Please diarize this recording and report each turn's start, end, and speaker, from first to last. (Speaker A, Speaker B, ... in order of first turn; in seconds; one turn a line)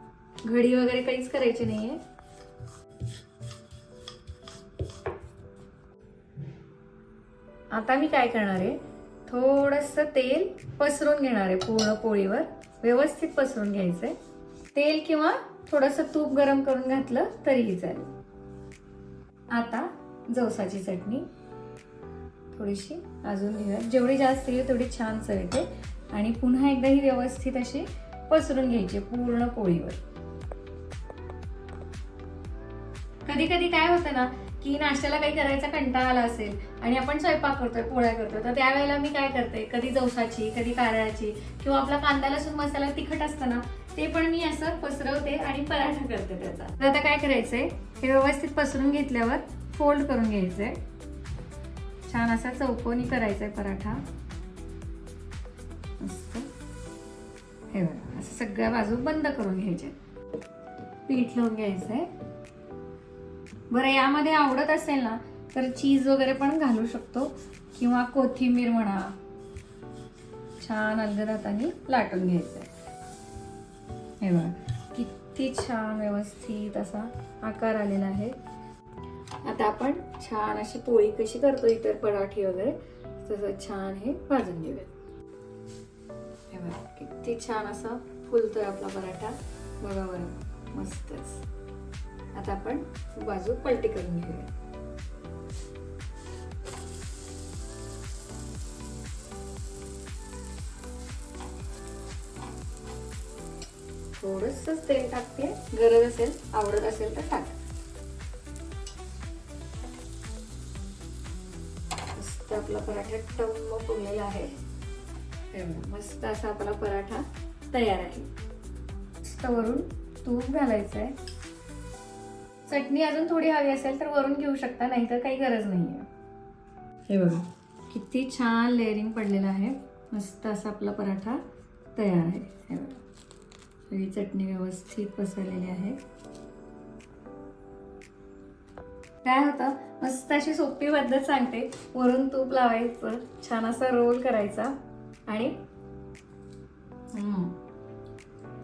Speaker A: 0.4-2.0
Speaker A: 7.7-14.1
Speaker A: 14.7-18.1
Speaker A: 19.5-21.3
Speaker A: 22.5-30.0
Speaker A: 33.2-50.8
Speaker A: 52.1-54.0
Speaker A: 56.0-56.5
Speaker A: 57.7-60.0
Speaker A: 61.0-62.1
Speaker A: 63.7-69.1
Speaker A: 70.6-72.7
Speaker A: 74.2-78.3
Speaker A: 79.4-84.9
Speaker A: 86.5-91.4
Speaker A: 92.3-94.5
Speaker A: 104.2-107.6
Speaker A: 112.1-114.5
Speaker A: 115.5-118.3
Speaker A: 119.2-121.1
Speaker A: 122.7-126.1
Speaker A: 127.1-131.4
Speaker A: 131.9-133.0
Speaker A: 133.9-136.0
Speaker A: 139.2-144.7
Speaker A: 145.3-145.5
Speaker A: 147.1-147.6